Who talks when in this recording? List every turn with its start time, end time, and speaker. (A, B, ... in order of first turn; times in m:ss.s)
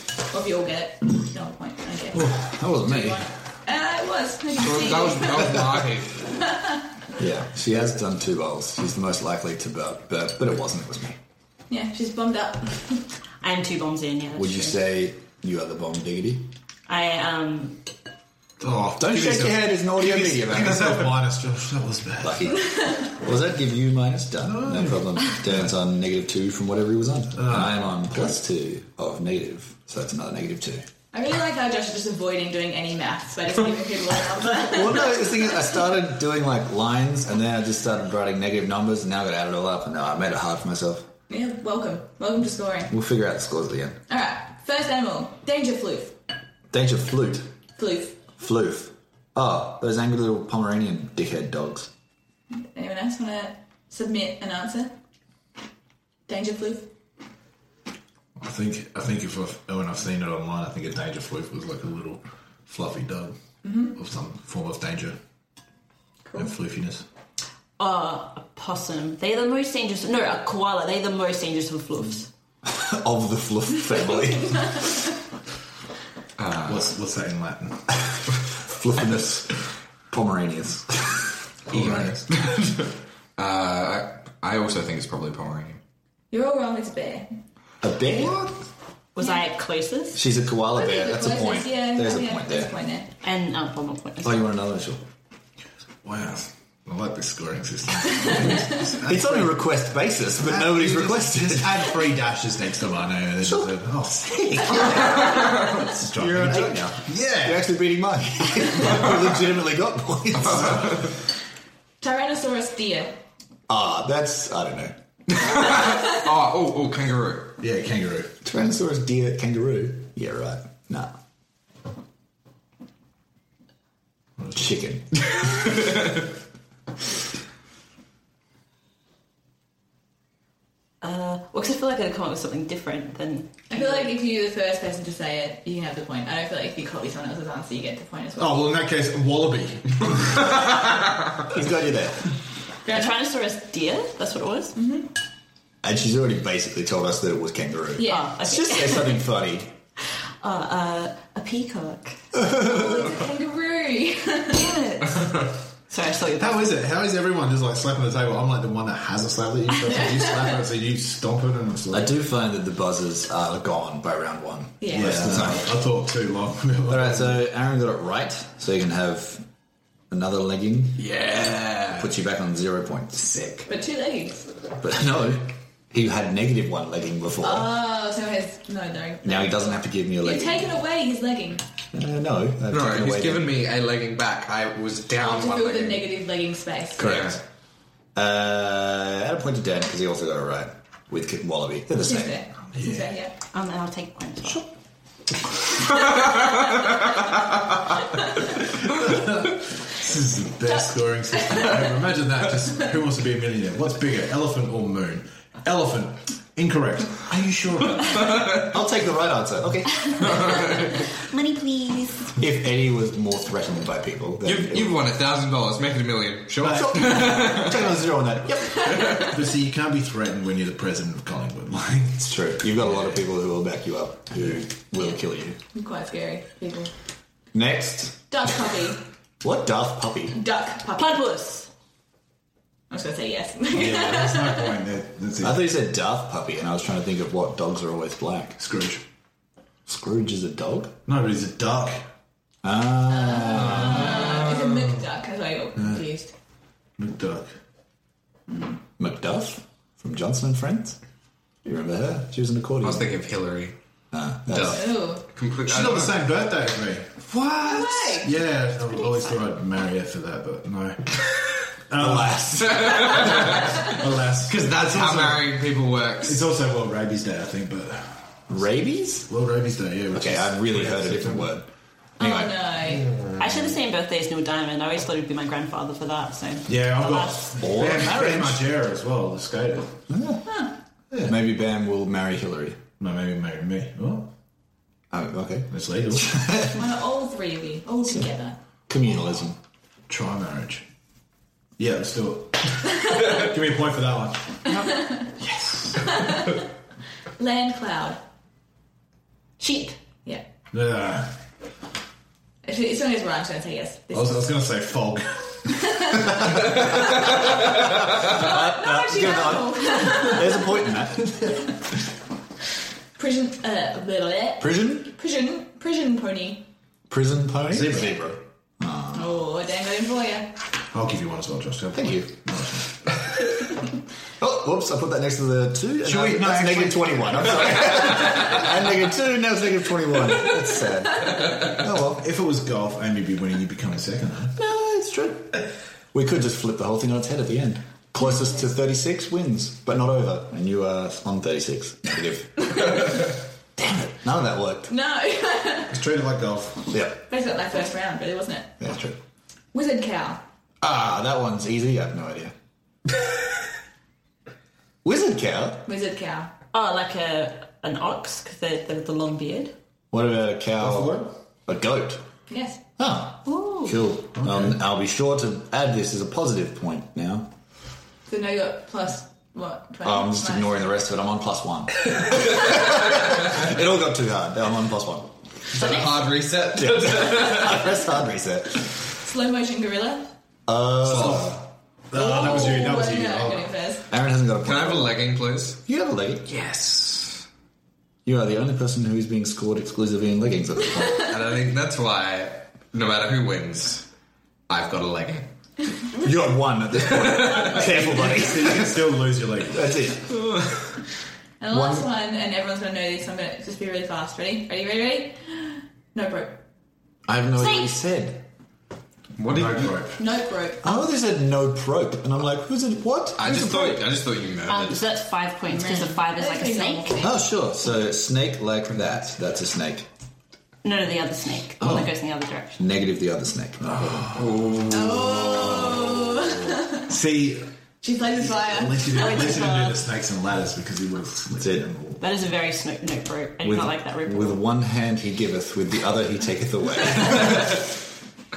0:00.3-0:05.6 A
0:02.1-0:03.2 B
0:04.6-0:06.2 C
0:07.2-0:11.2 B
0:11.7-0:13.1 A
0:13.4-0:14.8 D
0:14.4-0:16.5 B
0:16.9-0:17.8 D
0:18.6-0:22.5 E
0:19.0-0:21.2 B
0:22.2-0:30.8 B
0:24.4-0:25.0 E
0:27.3-0:28.3 E
0:31.1-0:35.6 A
0:34.5-0:41.1 B
0:41.3-0:42.9 A
0:42.9-0:44.0 B
0:44.1-0:46.2 A
0:46.7-0:47.5 B
0:47.8-0:48.3 A
0:48.4-0:51.9 B
0:52.5-0:55.0 A
0:56.3-0:56.9 A
0:58.4-1:03.3 E
1:03.6-1:04.0 A
1:03.9-1:05.2 E
1:06.4-1:07.0 E
1:07.8-1:12.3 D
1:12.6-1:15.0 B
1:16.4-1:16.9 C
1:16.7-1:18.0 E
1:18.6-1:21.4 B
1:21.7-1:22.3 E
1:21.7-1:22.8 C
1:23.4-1:25.8 C
1:26.3-1:27.3 A
1:27.8-1:28.5 B
1:29.1-1:30.2 D
1:30.1-1:32.7 B
1:30.7-1:33.1 A
1:33.2-1:34.4 D
1:34.2-1:35.0 B
1:36.0-1:39.6 E
1:38.8-1:42.0 B
1:40.4-1:47.6 E
1:43.4-1:51.0 B
1:50.5-1:51.0 E
1:52.0-1:53.2 A
1:53.7-1:54.9 B
1:55.3-1:57.6 C
1:57.6-1:58.3 E
1:58.4-2:01.1 B
2:04.5-2:05.6 B
2:11.0-2:14.1 D
2:13.7-2:18.6 A
2:18.4-2:20.7 E
2:21.5-2:22.3 B
2:22.8-2:24.8 D
2:22.8-2:23.1 A
2:24.7-2:25.1 A
2:25.8-2:29.7 B
2:28.0-2:28.3 A
2:28.0-2:29.2 D
2:30.4-2:32.4 D
2:32.4-2:34.8 A
2:34.5-2:36.8 D
2:36.4-2:42.1 E
2:41.9-2:45.8 B
2:44.8-2:45.3 A
2:44.9-2:47.4 E
2:45.2-2:45.6 C
2:46.9-2:49.4 B
2:50.1-2:51.1 B
2:51.0-2:52.1 C
2:51.9-2:53.4 B
2:53.3-2:53.6 C
2:53.6-2:54.5 A
2:54.8-2:57.7 B
2:57.4-3:01.6 A
2:59.2-3:00.8 B
3:01.9-3:03.5 B
3:02.7-3:06.1 C
3:05.2-3:07.2 A
3:07.0-3:07.4 B
3:07.0-3:07.4 C
3:08.1-3:12.4 B
3:12.0-3:13.3 A
3:13.5-3:14.6 D
3:18.8-3:27.3 E
3:21.3-3:21.9 A
3:27.3-3:30.5 B
3:27.9-3:28.4 E
3:28.3-3:28.6 C
3:30.0-3:32.4 D
3:30.2-3:30.9 C
3:32.4-3:35.0 B
3:34.4-3:37.8 C
3:36.6-3:37.4 E
3:36.6-3:39.2 B
3:38.9-3:42.5 E
3:38.9-3:39.2 A
3:42.2-3:45.6 B
3:45.7-3:46.9 A
3:47.5-3:48.3 B
3:48.3-3:49.0 A
3:49.4-3:50.4 B
3:50.3-3:51.3 A
3:50.9-3:51.7 D
3:52.9-3:54.8 A
3:53.7-3:55.7 E
3:55.4-3:58.6 B
3:58.6-3:59.0 E
3:59.9-4:00.9 B
4:01.0-4:02.0 E
4:02.6-4:04.4 B
4:03.1-4:06.3 A
4:03.8-4:04.8 C
4:07.0-4:07.5 E
4:08.5-4:08.8 A
4:09.0-4:11.0 B
4:11.6-4:13.1 B
4:12.8-4:13.7 C
4:14.1-4:14.9 B
4:14.5-4:16.3 C
4:14.7-4:15.2 A
4:15.6-4:17.2 E
4:17.3-4:18.1 C
4:17.6-4:18.3 A
4:18.2-4:21.0 E
4:18.9-4:19.4 D
4:21.9-4:25.5 E
4:22.0-4:23.7 B
4:22.7-4:23.7 C
4:24.4-4:26.4 C
4:26.2-4:28.2 E
4:28.5-4:29.3 B
4:29.3-4:31.5 E
4:30.1-4:32.6 B
4:32.2-4:33.1 A
4:33.1-4:33.4 C
4:33.4-4:37.5 D
4:36.7-4:40.0 E
4:37.6-4:38.6 B
4:40.1-4:42.8 B
4:40.4-4:40.7 A
4:43.0-4:44.3 E
4:45.1-4:46.8 B
4:45.7-4:46.4 E
4:46.7-4:48.6 A
4:48.9-4:49.6 B
4:50.1-4:50.8 E
4:51.8-4:54.7 E
4:54.7-4:55.3 A
4:55.2-4:56.3 C
4:56.0-4:56.6 A
4:57.4-4:58.2 A
4:59.6-5:00.0 D
5:00.7-5:01.4 E
5:02.6-5:04.5 A
5:04.1-5:06.8 E
5:05.7-5:06.5 A
5:08.2-5:11.8 B
5:08.3-5:10.9 A
5:13.2-5:16.7 A
5:14.6-5:15.1 B
5:17.1-5:19.3 B
5:17.7-5:18.1 E
5:19.1-5:20.5 A
5:20.9-5:23.0 E
5:21.9-5:22.3 B
5:24.4-5:32.3 B
5:26.0-5:28.4 E
5:32.1-5:34.6 E
5:34.6-5:44.9 B
5:44.9-5:46.0 A
5:45.9-5:46.9 E
5:46.9-5:47.2 B
5:47.3-5:48.7 A
5:48.8-5:49.2 B
5:49.7-5:50.4 A
5:50.8-5:52.5 B
5:55.0-5:55.9 B
5:55.8-5:56.5 A
5:56.7-5:59.7 D
6:00.1-6:02.2 B
6:00.8-6:01.3 E
6:02.5-6:02.8 A
6:03.0-6:07.5 B
6:03.4-6:04.0 D
6:04.4-6:04.7 E
6:08.3-6:11.0 A
6:10.0-6:15.3 B
6:15.7-6:17.8 C
6:15.8-6:16.0 D
6:16.7-6:18.9 B
6:19.2-6:20.3 A
6:20.7-6:21.5 B
6:21.0-6:21.4 C
6:21.0-6:23.7 E
6:22.1-6:24.0 A
6:24.1-6:25.3 B
6:24.6-6:25.8 C
6:25.8-6:26.5 B
6:26.4-6:27.4 C
6:28.2-6:31.3 B
6:31.2-6:34.1 C
6:34.7-6:35.5 C
6:36.2-6:39.0 B
6:37.2-6:37.8 C
6:37.8-6:40.0 E
6:39.7-6:40.4 B
6:40.4-6:40.7 C
6:41.6-6:46.6 A
6:41.7-6:42.0 B
6:47.2-6:48.4 B
6:47.6-6:47.9 D
6:49.4-6:50.0 C
6:49.5-6:50.2 E
6:50.2-6:51.0 A
6:50.8-6:54.0 B
6:53.4-6:55.0 C
6:54.7-6:57.3 D
6:55.7-6:57.4 A
6:57.2-7:00.1 B
7:00.8-7:02.8 D
7:01.8-7:02.1 B
7:02.8-7:04.4 B
7:04.2-7:06.5 C
7:04.9-7:07.1 A
7:07.0-7:07.7 E
7:08.0-7:09.6 A
7:08.4-7:12.2 E
7:09.1-7:10.0 D
7:11.6-7:11.9 B
7:12.2-7:14.6 D
7:13.6-7:17.8 B